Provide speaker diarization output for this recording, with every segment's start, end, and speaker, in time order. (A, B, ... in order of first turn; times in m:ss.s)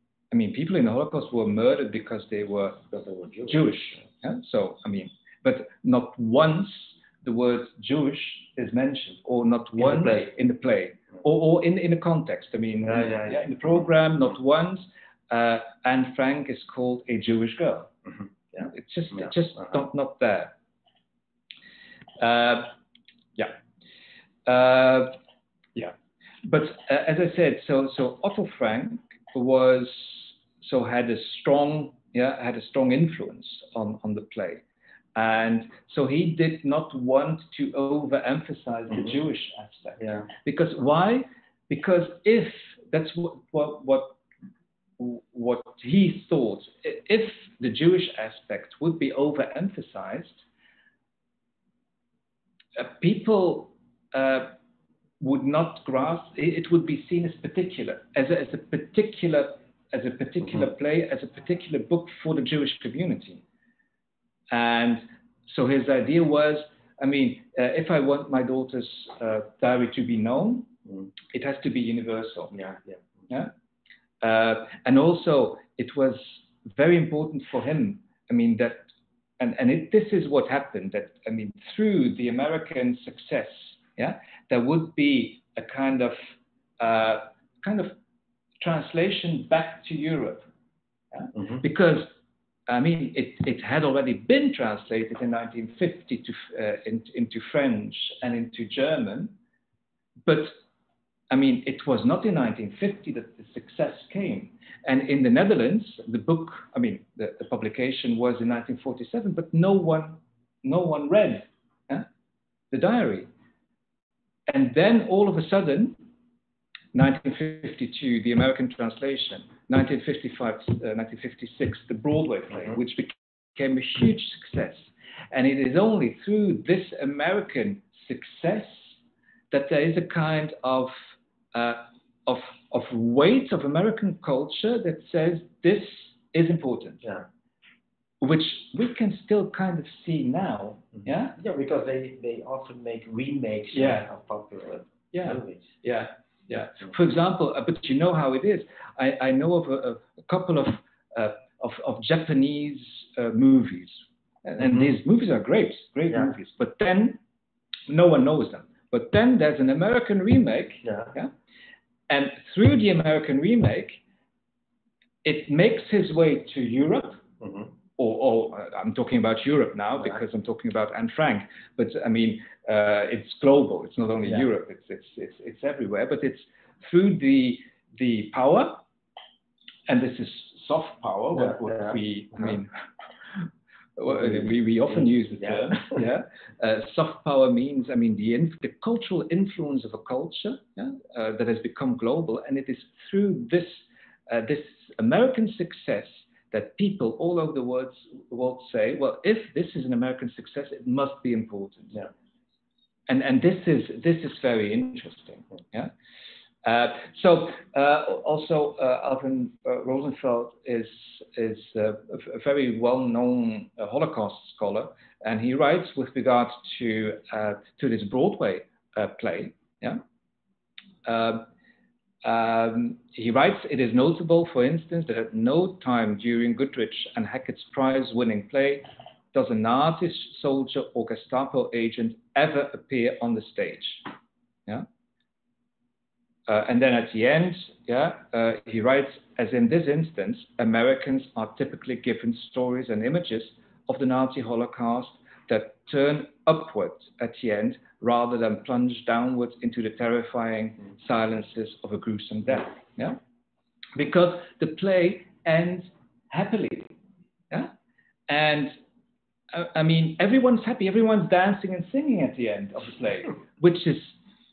0:00.3-0:02.9 A
0:02.9-0:03.8 B
0:03.4-0:17.9 A
0:09.8-0:10.2 B
0:12.9-0:13.4 B
0:18.6-0:20.5 A
0:22.2-0:22.7 A
0:24.4-0:25.2 A
0:25.7-0:34.6 A
0:35.1-0:44.2 A
0:40.0-0:40.3 B
0:45.0-0:50.4 A
0:52.8-0:54.5 A
0:55.2-1:03.4 A
1:04.5-1:10.7 A
1:11.3-1:12.6 A
1:12.5-1:13.0 B
1:14.2-1:27.9 A
1:28.6-1:30.5 A
1:31.1-1:32.1 A
1:32.7-1:39.3 A
1:40.2-1:40.6 A
1:41.3-1:52.0 A
1:52.7-1:53.3 A
1:54.5-1:56.0 A
1:56.9-2:17.1 A
2:18.2-2:21.4 A
2:21.3-2:25.7 B
2:23.7-2:24.1 A
2:25.1-2:37.2 A
2:34.6-2:34.9 B
2:37.9-2:41.3 A
2:40.8-2:41.1 B
2:42.1-2:44.0 A
2:45.2-2:47.2 A
2:47.4-2:47.7 B
2:48.0-2:58.8 A
2:59.9-3:02.7 A
3:01.3-3:02.0 B
3:04.0-3:22.1 A
3:23.1-3:25.9 A
3:26.6-3:40.0 A
3:41.0-3:41.5 A
3:42.2-3:54.1 A
3:56.5-4:13.2 A
4:14.0-4:16.9 A
4:18.3-4:18.8 A
4:19.5-4:24.2 A